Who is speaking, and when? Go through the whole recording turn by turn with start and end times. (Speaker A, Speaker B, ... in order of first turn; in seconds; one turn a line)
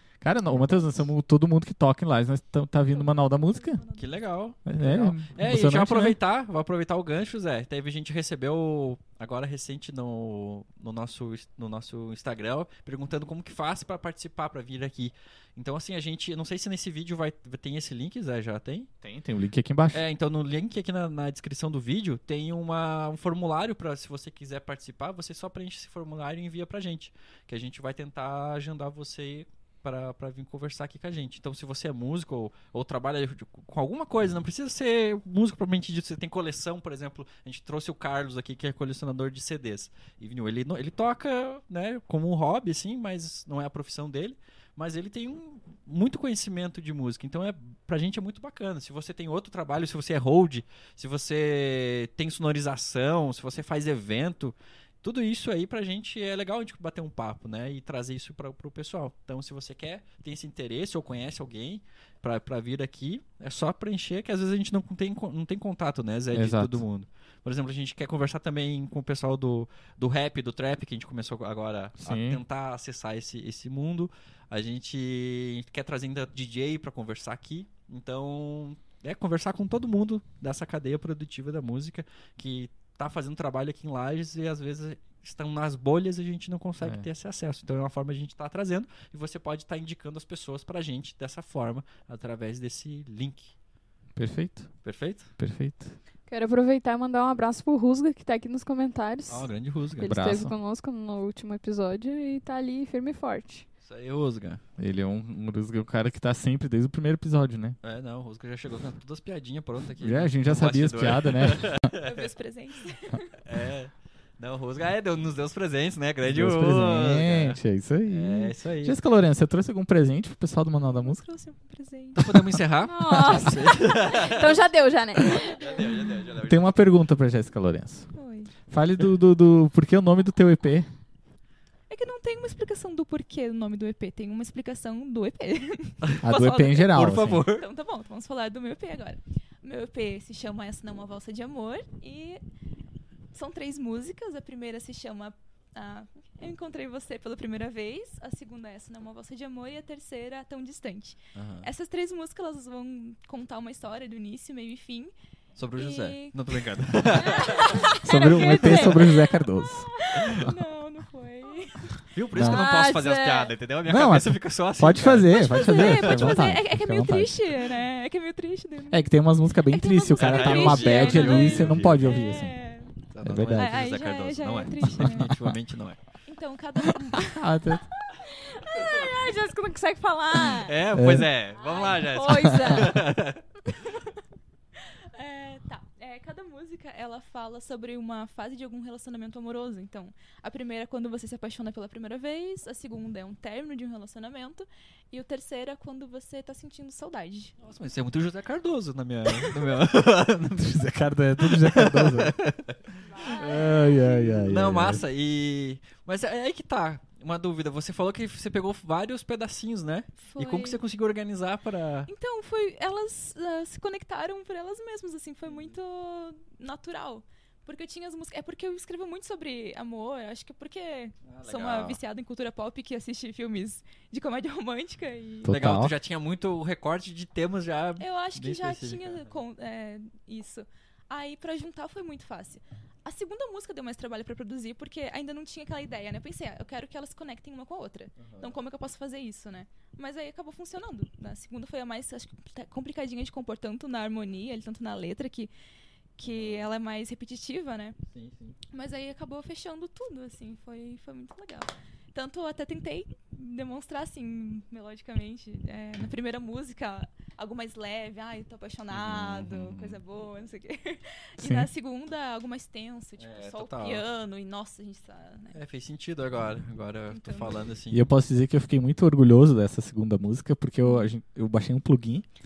Speaker A: 0.2-3.8
Speaker B: 2.9-4.1
Speaker C: 4.0-18.9
Speaker A: 4.7-6.2
Speaker A: 19.0-20.0
Speaker C: 19.9-93.5
Speaker A: 66.3-66.8
Speaker A: 72.0-72.4
Speaker A: 86.8-87.0
Speaker A: 94.2-94.7
Speaker C: 94.8-95.3
Speaker A: 95.4-96.0
Speaker D: 96.3-103.7
Speaker C: 99.3-100.2
Speaker A: 100.0-100.5
Speaker C: 103.8-104.6
Speaker A: 104.8-107.8
Speaker C: 107.8-112.3
Speaker A: 110.0-111.9
Speaker B: 112.0-113.4
Speaker C: 113.4-119.0
Speaker A: 116.2-121.2
Speaker B: 121.0-122.4
Speaker C: 122.2-126.8
Speaker D: 122.9-125.9
Speaker A: 123.1-123.5
Speaker B: 125.4-126.0
Speaker A: 126.4-128.1
Speaker B: 128.1-128.5
Speaker A: 128.7-130.9
Speaker B: 131.9-142.4
Speaker A: 136.2-137.4
Speaker C: 136.9-137.7
Speaker B: 143.3-155.1
Speaker C: 151.3-151.7
Speaker C: 155.6-157.9
Speaker B: 155.7-156.4
Speaker B: 157.0-162.0
Speaker A: 158.0-159.9
Speaker D: 158.3-159.0
Speaker C: 160.2-160.5
Speaker C: 162.1-166.6
Speaker A: 162.3-162.7
Speaker D: 162.4-163.5
Speaker A: 163.9-167.4
Speaker B: 165.3-169.1
Speaker A: 168.9-172.6
Speaker B: 169.7-173.0
Speaker C: 170.2-172.2
Speaker C: 173.1-176.0
Speaker A: 173.2-173.8
Speaker B: 173.5-175.4
Speaker A: 175.1-175.5
Speaker B: 176.3-177.5
Speaker A: 177.2-177.9
Speaker D: 178.0-180.8
Speaker C: 180.5-183.4
Speaker A: 180.9-181.3
Speaker D: 181.6-183.1
Speaker A: 182.4-183.0
Speaker B: 184.8-197.5
Speaker C: 197.6-200.8
Speaker B: 199.3-199.8
Speaker A: 200.5-202.4
Speaker C: 201.4-203.4
Speaker D: 203.1-204.2
Speaker A: 203.2-205.1
Speaker C: 204.3-212.1
Speaker B: 210.2-210.8
Speaker B: 212.1-225.6
Speaker C: 215.5-215.8
Speaker C: 221.2-222.0
Speaker A: 225.4-225.9
Speaker C: 225.5-229.3
Speaker B: 228.0-245.5
Speaker C: 238.2-238.6
Speaker B: 246.2-248.0
Speaker C: 246.2-246.7
Speaker C: 248.1-248.6
Speaker B: 248.7-265.6
Speaker C: 258.9-260.0
Speaker A: 261.4-261.7
Speaker C: 263.2-264.0
Speaker C: 265.5-268.1
Speaker B: 267.1-267.6
Speaker A: 267.9-272.3
Speaker B: 270.8-271.1